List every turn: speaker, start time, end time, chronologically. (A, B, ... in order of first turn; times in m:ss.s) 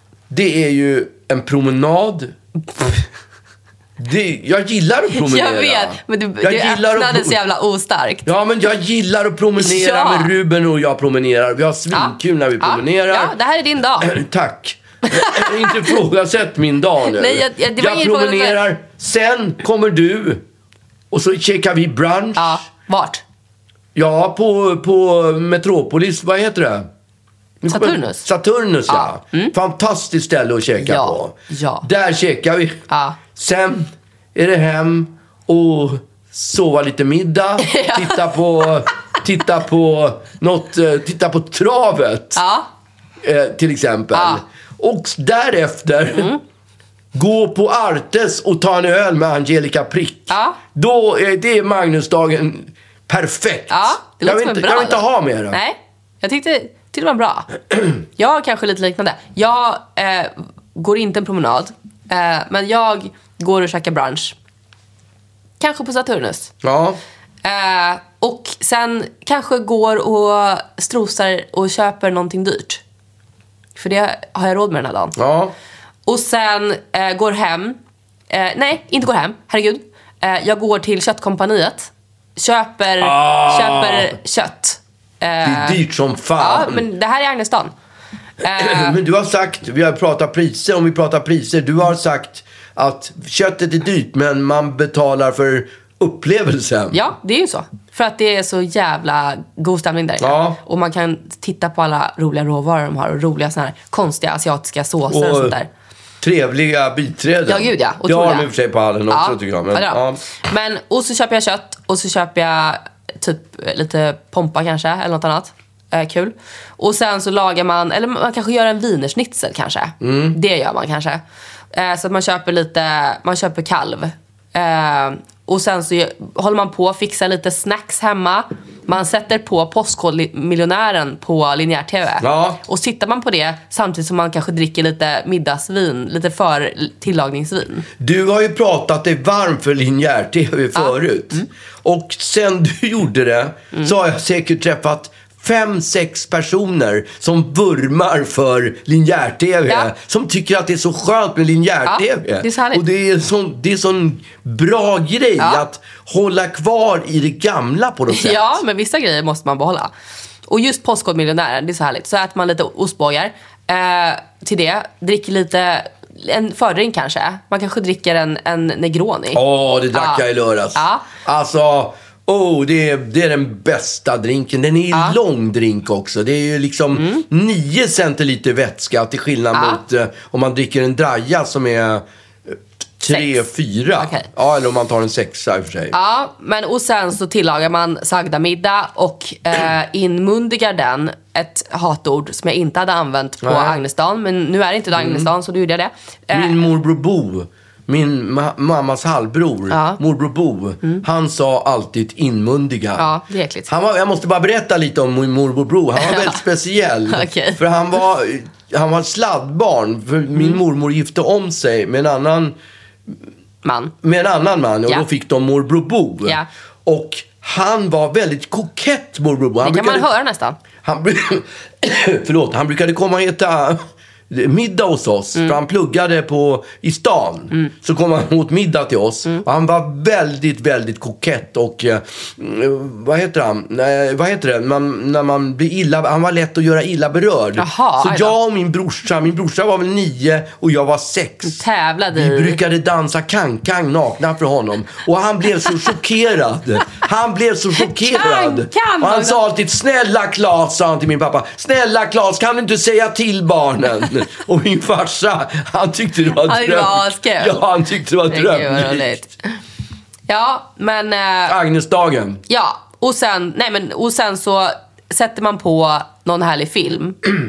0:00.3-0:02.3 A
0:04.0-0:07.4 A
0:05.1-0:08.3 B
0:08.2-0:13.3 A
0:09.6-0:10.3 B
0:11.9-0:14.1 B
0:14.0-0:20.4 A
0:15.1-0:15.9 B
0:17.0-0:18.6 B
0:21.1-0:22.6 A
0:22.4-0:23.2 B
0:23.9-0:26.9 A
0:27.6-0:42.4 A
0:27.7-0:28.2 B
0:28.9-0:29.5 B
0:30.8-0:31.8 B
0:32.9-0:33.2 B
0:37.6-0:38.7 B
0:42.4-0:42.7 B
0:43.2-0:46.3 A
0:44.1-0:44.4 B
0:46.1-0:46.4 B
0:47.1-0:55.6 A
0:50.3-0:50.6 B
0:53.7-0:57.5 B
0:58.1-1:04.3 B
1:05.6-1:06.5 B
1:06.6-1:07.0 A
1:07.4-1:12.8 B
1:13.8-1:15.2 B
1:15.2-1:15.5 A
1:16.0-1:17.8 B
1:18.3-1:25.8 B
1:23.0-1:24.2 A
1:25.4-1:26.8 A
1:26.4-1:27.7 B
1:28.4-1:29.0 B
1:28.4-1:37.0 A
1:36.9-1:45.7 B
1:40.2-1:40.6 A
1:45.1-1:45.6 A
1:46.2-1:50.2 A
1:47.5-1:48.5 B
1:49.1-2:01.2 B
2:00.0-2:00.4 A
2:01.7-2:17.8 B
2:12.2-2:12.6 A
2:18.0-2:38.6 A
2:20.7-2:21.4 B
2:31.8-2:32.8 B
2:35.4-2:35.6 B
2:38.1-2:39.9 B
2:40.5-2:49.4 B
2:49.3-3:05.9 A
2:49.9-2:50.2 B
2:50.7-2:51.0 B
2:54.9-2:55.2 B
2:56.9-2:57.2 B
2:59.5-2:59.8 B
3:03.1-3:03.4 B
3:04.0-3:04.3 B
3:05.9-3:16.6 B
3:13.4-3:13.8 A
3:15.0-3:15.3 A
3:16.3-3:23.0 A
3:19.7-3:20.0 B
3:23.0-3:23.7 B
3:23.7-3:32.6 A
3:26.0-3:26.4 B
3:27.1-3:27.6 B
3:30.3-3:30.6 B
3:33.6-3:33.9 B
3:34.0-3:40.1 A
3:39.6-3:40.6 B
3:40.8-4:01.6 A
3:57.6-3:58.3 B
4:01.4-4:02.6 B
4:02.1-4:19.2 A
4:07.9-4:09.4 B
4:16.3-4:17.6 B
4:18.3-4:19.4 B
4:20.3-4:21.6 B
4:21.5-4:22.4 A
4:22.5-4:27.2 B